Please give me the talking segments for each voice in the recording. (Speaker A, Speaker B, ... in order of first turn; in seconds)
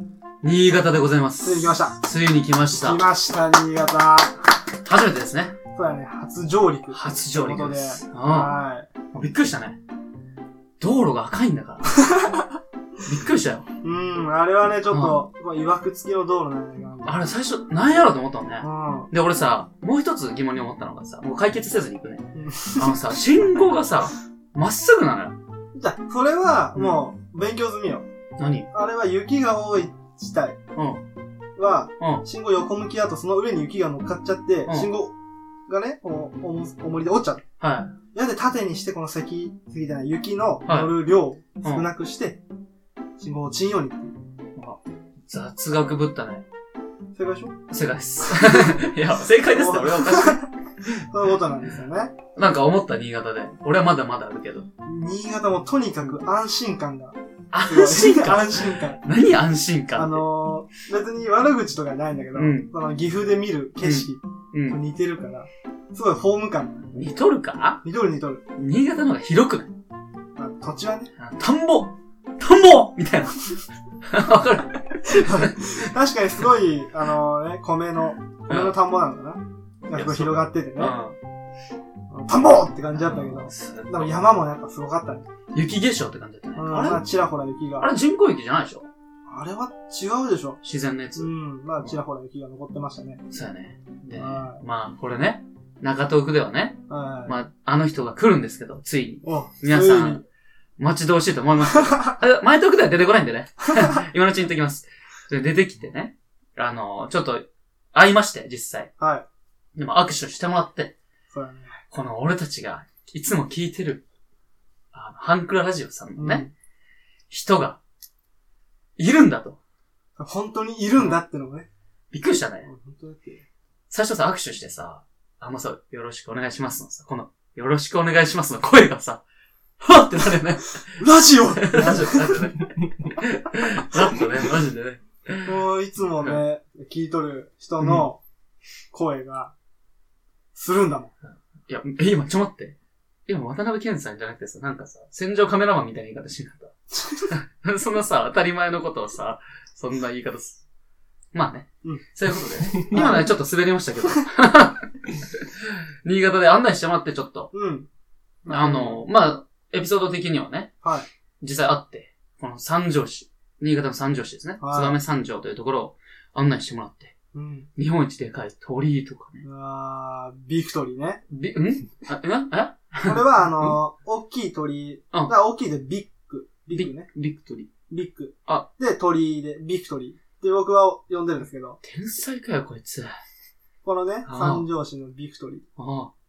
Speaker A: 0.4-3.0, 4.8-5.5, 6.9-8.6, 9.1-9.8, 10.8-12.0, 13.0-13.7, 14.9-15.2, 17.0-25.4, 28.4-28.7, 30.8-31.0, 37.6-37.9, 40.6-41.0, 41.6-41.9, 44.5-46.4, 47.7-50.4, 52.4-54.7, 57.5-60.2, 62.3-62.7, 63.8-64.8, 66.9-67.8, 68.5-69.7, 71.2-73.5, 74.0-75.9, 78.5-78.8, 79.9-81.2, 82.9-84.4, 85.5-87.0, 87.8-88.9, 90.6-92.0, 93.3-100.2, 100.8-108.9, 109.8-110.9, 111.9-114.0, 114.9-116.5, 117.3-117.8, 119.0-119.6, 122.1-122.7, 123.9-129.2, 129.8-131.0, 131.6-135.6, 137.8-138.1, 141.7-142.8, 143.3-146.7, 147.3-150.6, 151.3-157.5, 158.5-160.7, 161.4-167.1, 167.8-169.4, 171.3-173.8, 176.7-177.7, 181.8-183.2, 184.2-184.7, 185.8-186.1
Speaker B: 1.4-1.9, 2.8-4.4, 5.7-8.9, 11.9-12.5, 13.8-17.3, 18.6-19.1, 22.4-23.2, 25.7-28.1, 28.7-30.6, 31.6-35.1, 35.7-37.4, 38.1-42.4, 43.2-44.1, 47.1-47.5, 48.3-48.8, 49.5-50.5, 51.0-52.1, 54.8-57.2, 57.7-59.0, 60.0-66.9, 67.8-68.4, 70.3-71.1, 75.0-80.9, 82.1-85.2, 86.5-87.9, 89.3-90.6, 91.2-93.2, 94.2-94.6, 96.9-97.3, 99.2-100.2, 101.9-102.1, 109.0-109.2, 111.3-111.8, 116.2-116.5, 120.2-121.7, 122.7-123.5, 131.0-132.4, 135.4-138.2, 138.9-139.5, 140.5-141.1, 146.9-147.3, 152.8-153.3, 157.5-157.9, 158.4-159.0, 164.6-165.0, 167.3-167.7, 169.4-171.2, 173.0-177.1, 177.9-181.8, 183.8-185.7